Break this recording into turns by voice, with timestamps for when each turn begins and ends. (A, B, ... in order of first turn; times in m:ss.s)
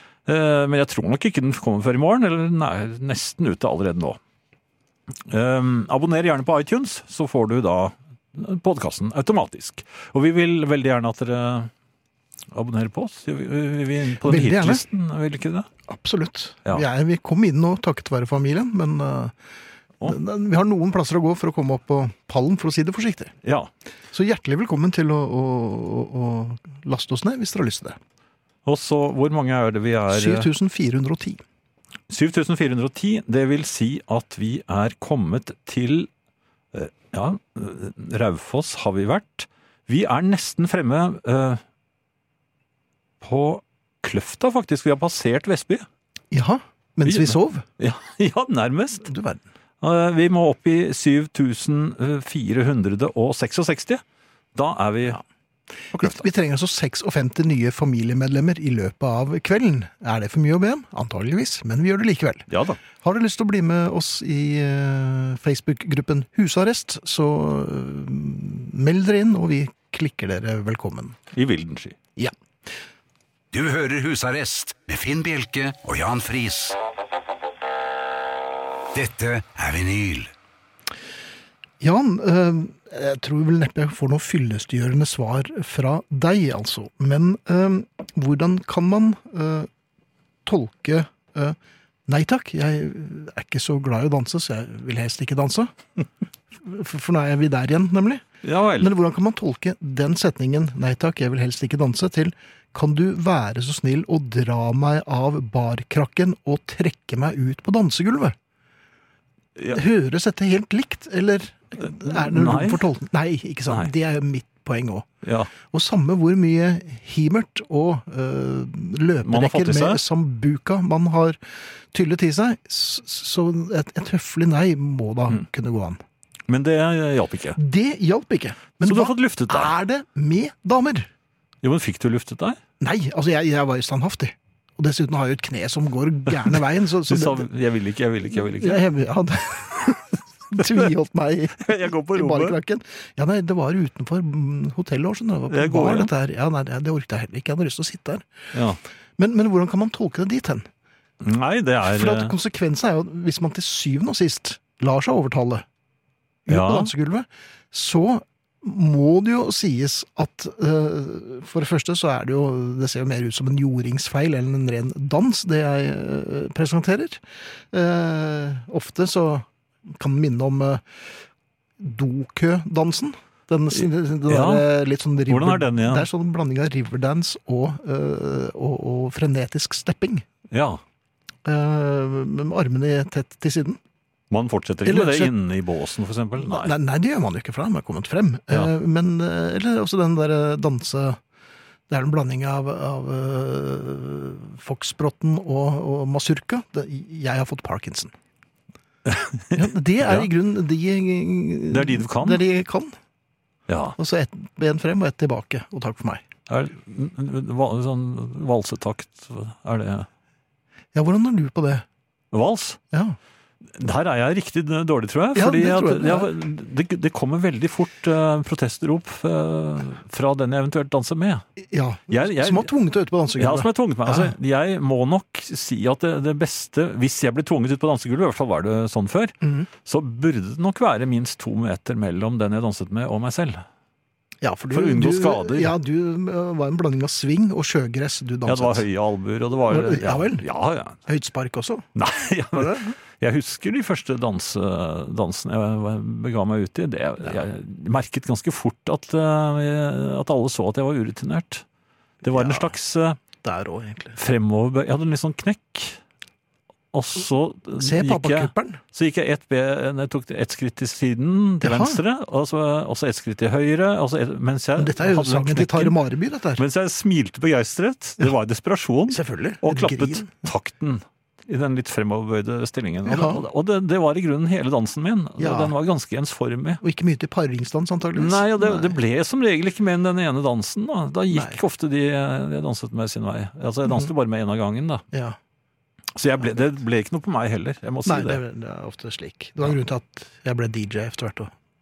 0:00.3-0:04.2 A
0:05.3-0:11.7 A
0:12.5-0:15.7 A
0:14.2-0:14.9 B
0:15.9-0:19.4 B
0:20.0-0:23.3 B
0:23.4-0:23.7 A
0:24.1-0:28.0 B
0:28.6-0:30.5 A
0:30.1-0:31.4 B
0:32.1-0:36.1 A
0:36.7-0:41.6 A
0:43.2-0:45.9 A
0:46.3-0:47.7 B
0:47.0-0:49.1 A
0:49.0-0:49.4 B
0:49.8-0:54.0 A
0:54.6-0:55.2 A
0:55.9-0:56.2 A
0:56.0-1:11.2 B
1:02.5-1:02.8 A
1:11.3-1:12.0 A
1:13.5-1:16.8 C
1:18.9-1:20.3 C
1:21.8-1:29.7 B
1:30.5-1:31.6 B
1:32.1-1:35.7 B
1:36.6-1:38.2 B
1:38.4-1:38.9 A
1:38.8-1:48.4 B
1:49.7-1:55.1 B
1:51.8-1:52.9 A
1:55.2-1:55.5 A
1:55.7-2:01.4 B
1:59.2-2:00.0 A
2:01.9-2:06.0 B
2:06.5-2:07.6 A
2:07.6-2:11.1 B
2:08.8-2:09.8 A
2:11.6-2:12.6 A
2:12.8-2:17.5 B
2:16.5-2:18.8 A
2:18.3-2:28.3 B
2:21.6-2:22.6 A
2:25.5-2:26.1 A
2:28.5-2:28.8 A
2:29.2-2:30.7 B
2:31.2-2:32.3 A
2:31.8-2:35.6 B
2:36.5-2:47.2 B
2:36.5-2:36.9 A
2:47.7-2:50.8 B
2:51.8-3:00.3 B
2:53.7-2:54.7 A
2:55.3-2:56.1 A
3:00.5-3:00.8 A
3:01.4-3:03.8 B
3:04.3-3:06.7 A
3:04.8-3:05.4 B
3:06.4-3:11.2 B
3:11.9-3:18.1 B
3:19.1-3:20.3 A
3:19.5-3:23.0 B
3:21.7-3:22.4 A
3:23.7-3:24.0 A
3:24.0-3:26.2 B
3:26.5-3:30.1 A
3:30.9-3:31.8 B
3:32.3-3:32.8 A
3:32.9-3:33.2 B
3:33.7-3:41.4 A
3:35.4-3:36.3 B
3:41.6-3:44.3 B
3:42.1-3:42.7 A
3:43.4-3:53.6 A
3:49.4-3:49.7 B
3:54.4-3:58.9 B
3:54.7-3:55.8 A
3:58.5-4:01.0 A
3:59.7-4:00.4 B
4:01.1-4:01.9 B
4:02.0-4:11.6 A
4:02.6-4:02.9 B
4:12.2-4:13.2 A
4:12.3-4:12.7 B
4:13.4-4:14.2 B
4:14.2-4:16.0 A
4:16.9-4:26.0 A
4:17.8-4:18.8 B
4:21.6-4:22.0 B
4:24.8-4:26.6 B
4:26.6-4:36.8 A
4:29.1-4:30.3 B
4:33.0-4:33.4 B
4:35.4-4:35.7 B
4:36.8-4:39.0 B
4:38.2-4:45.0 A
4:41.3-4:41.6 B
4:45.1-4:45.4 B
4:46.2-4:48.4 A
4:48.1-4:51.5 B